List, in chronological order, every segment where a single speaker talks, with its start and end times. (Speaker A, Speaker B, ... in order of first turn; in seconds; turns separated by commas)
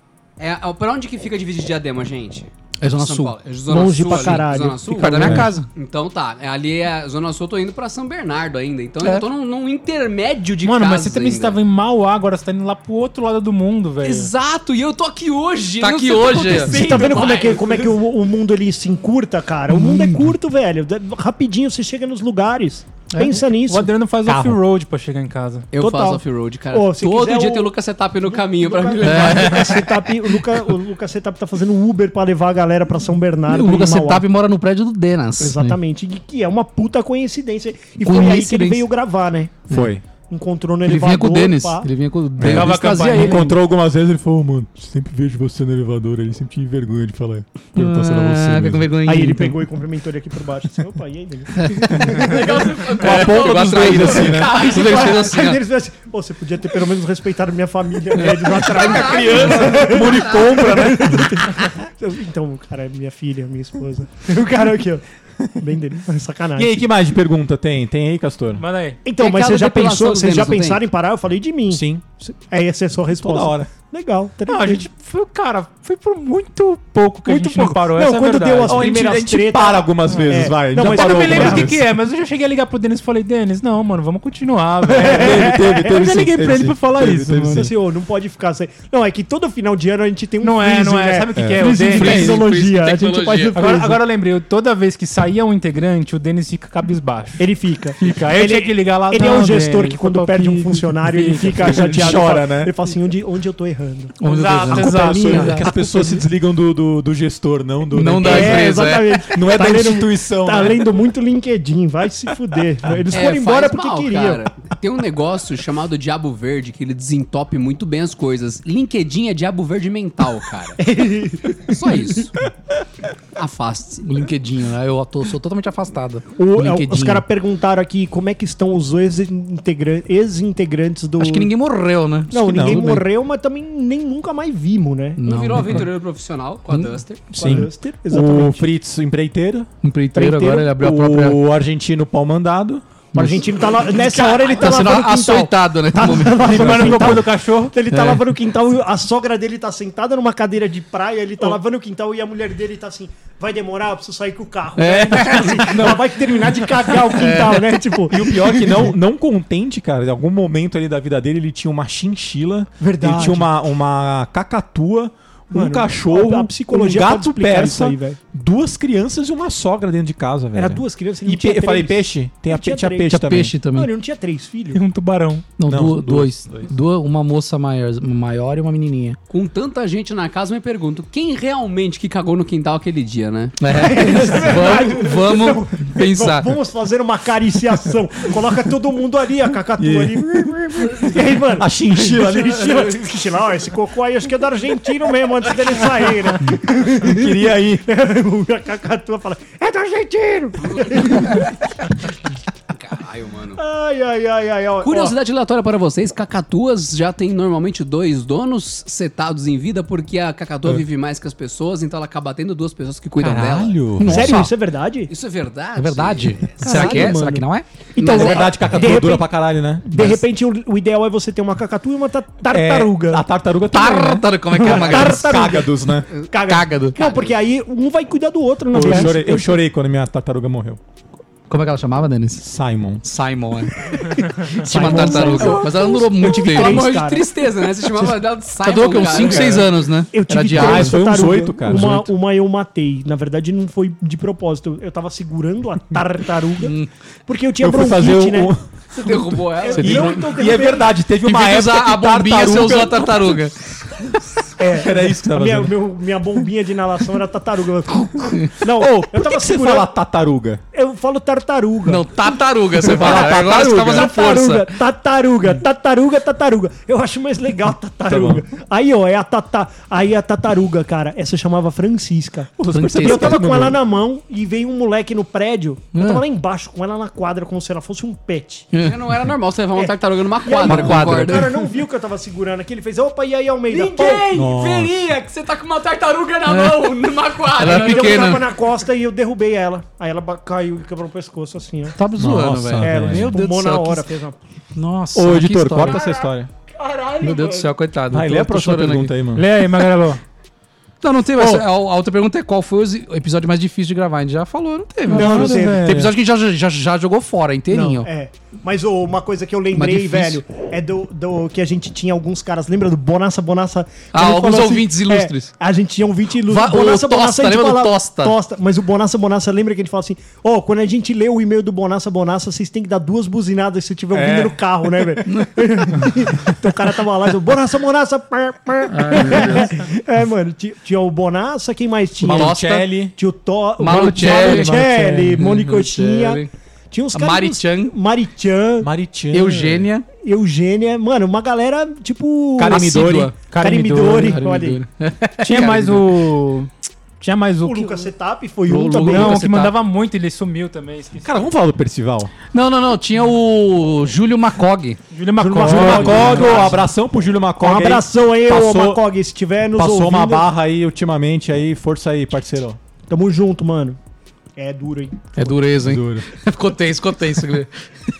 Speaker A: 0.4-11.6, Speaker B: 2.8-3.4, Speaker C: 3.7-5.5, Speaker B: 4.0-5.7, Speaker D: 5.2-5.5, Speaker E: 10.6-14.3, Speaker A: 14.0-17.9, Speaker B: 15.8-17.1, Speaker C: 16.6-23.9, Speaker E: 23.2-25.7, Speaker D: 24.2-24.6, Speaker A: 25.7-29.9, Speaker C: 25.8-34.3, Speaker B: 29.0-29.9, Speaker B: 33.5-35.8, Speaker C: 35.4-39.7, Speaker B: 38.0-38.9, Speaker D: 39.7-40.0, Speaker C: 40.3-41.9, Speaker B: 40.9-43.5, Speaker D: 42.4-49.0, Speaker E: 42.4-43.5, Speaker B: 47.8-49.6, Speaker C: 49.0-52.9, Speaker B: 51.6-52.3, Speaker D: 51.9-52.4, Speaker A: 52.2-55.4, Speaker B: 52.9-55.6, Speaker D: 53.0-54.6, Speaker C: 54.2-65.0, Speaker B: 58.2-59.9, Speaker A: 58.7-60.4, Speaker D: 59.2-61.4, Speaker C: 65.6-66.7, Speaker D: 66.5-68.6, Speaker E: 68.6-69.0, Speaker C: 69.0-74.8, Speaker A: 69.2-70.8, Speaker D: 71.7-72.0, Speaker D: 73.2-73.7, Speaker E: 74.5-78.9, Speaker C: 77.2-81.8, Speaker D: 78.6-81.8, Speaker E: 80.1-87.7, Speaker D: 84.9-87.7, Speaker C: 84.9-86.0, Speaker C: 87.5-94.0, Speaker E: 90.4-92.4, Speaker D: 91.4-92.5, Speaker B: 91.9-93.6, Speaker E: 93.5-97.5, Speaker C: 97.4-104.2, Speaker E: 98.0-102.2, Speaker D: 101.6-102.7, Speaker B: 104.2-105.6, Speaker E: 104.2-105.7, Speaker D: 104.6-108.8, Speaker C: 104.7-105.8, Speaker B: 107.9-109.3, Speaker C: 108.2-114.4, Speaker D: 109.3-110.9, Speaker A: 113.1-120.8, Speaker C: 120.8-122.1, Speaker A: 121.7-122.4, Speaker A: 123.4-124.1, Speaker B: 124.0-127.2, Speaker C: 126.4-131.5, Speaker B: 131.2-133.0, Speaker C: 132.3-135.2, Speaker D: 132.4-133.0, Speaker B: 135.2-135.9, Speaker A: 135.2-137.3, Speaker C: 137.3-138.7, Speaker D: 137.3-143.3, Speaker B: 139.8-141.4, Speaker B: 143.1-147.1, Speaker C: 143.2-158.9, Speaker E: 146.4-147.8, Speaker B: 147.9-148.2, Speaker B: 154.8-156.1, Speaker B: 156.8-157.8, Speaker D: 158.1-173.5, Speaker C: 162.8-163.5, Speaker C: 165.5-168.2, Speaker C: 170.6-174.8, Speaker B: 173.1-173.9, Speaker E: 174.7-175.5, Speaker B: 175.6-179.2, Speaker D: 175.7-176.7, Speaker A: 179.3-183.6, Speaker B: 183.6-186.5, Speaker C: 183.7-201.6, Speaker D: 189.8-192.9, Speaker D: 197.0-197.8, Speaker A: 202.7-203.6, Speaker C: 203.6-205.2, Speaker A: 204.8-213.9, Speaker D: 213.2-214.5, Speaker B: 214.0-214.5, Speaker C: 214.0-215.1, Speaker A: 215.1-217.1, Speaker B: 215.8-217.7, Speaker C: 216.6-223.2, Speaker A: 218.0-218.7, Speaker D: 218.0-220.2, Speaker D: 222.5-226.1, Speaker B: 223.7-225.5, Speaker C: 224.5-229.6, Speaker B: 226.5-227.0, Speaker A: 227.0-227.3, Speaker D: 228.7-230.8, Speaker B: 228.8-229.1, Speaker B: 231.5-232.4, Speaker D: 232.4-233.0, Speaker B: 233.0-233.7, Speaker C: 234.2-237.3, Speaker B: 234.5-237.0, Speaker D: 234.8-235.6, Speaker A: 236.3-239.6, Speaker B: 238.6-241.0, Speaker C: 239.2-246.8, Speaker D: 240.5-242.1, Speaker B: 246.6-246.9, Speaker C: 247.2-250.9, Speaker D: 247.6-249.2, Speaker A: 248.9-250.2, Speaker D: 249.7-253.4, Speaker B: 251.2-253.5, Speaker C: 254.6-259.9, Speaker D: 254.7-255.8, Speaker D: 258.7-260.6, Speaker C: 260.7-262.1, Speaker B: 261.9-264.7, Speaker C: 262.8-278.7, Speaker D: 262.8-264.1, Speaker D: 268.1-268.4, Speaker D: 272.6-273.8, Speaker B: 272.7-273.5, Speaker B: 275.9-276.2, Speaker B: 278.7-279.1, Speaker A: 278.8-281.6, Speaker C: 279.8-284.3, Speaker B: 280.7-281.4, Speaker D: 280.7-281.3, Speaker A: 283.7-288.4, Speaker D: 284.3-284.9, Speaker B: 286.5-286.9, Speaker B: 287.6-288.4, Speaker C: 287.6-292.0, Speaker B: 292.0-294.1, Speaker D: 292.2-293.4, Speaker C: 292.8-294.4, Speaker B: 294.8-296.0, Speaker D: 295.1-296.5, Speaker A: 296.8-297.6, Speaker B: 297.2-299.1, Speaker D: 298.1-299.5, Speaker E: 299.4-300.2, Speaker B: 301.0-308.1, Speaker D: 301.4-301.7, Speaker C: 305.1-306.0, Speaker D: 305.1-306.1, Speaker C: 307.7-338.9, Speaker B: 309.7-310.4, Speaker B: 314.1-315.5, Speaker B: 316.5-318.4, Speaker D: 324.1-324.6, Speaker B: 325.3-325.6, Speaker B: 328.9-329.8, Speaker D: 329.1-329.5, Speaker B: 332.2-333.0, Speaker D: 332.2-333.1, Speaker B: 333.8-336.5, Speaker D: 333.9-335.4, Speaker B: 337.1-337.9, Speaker D: 338.8-339.9, Speaker B: 339.3-340.1, Speaker C: 340.2-344.8, Speaker D: 342.6-343.3, Speaker B: 342.7-343.4, Speaker E: 343.5-344.5, Speaker B: 344.1-346.1, Speaker E: 345.4-348.1, Speaker C: 347.6-349.4, Speaker B: 348.7-349.8, Speaker E: 349.0-351.4, Speaker D: 351.2-352.3, Speaker B: 352.5-355.0, Speaker E: 355.1-356.8, Speaker C: 355.4-356.9, Speaker D: 355.6-359.0, Speaker B: 356.0-356.5, Speaker C: 357.6-360.5, Speaker D: 359.7-362.8, Speaker C: 363.1-364.0, Speaker C: 364.6-365.5, Speaker B: 365.4-367.7, Speaker D: 365.8-366.2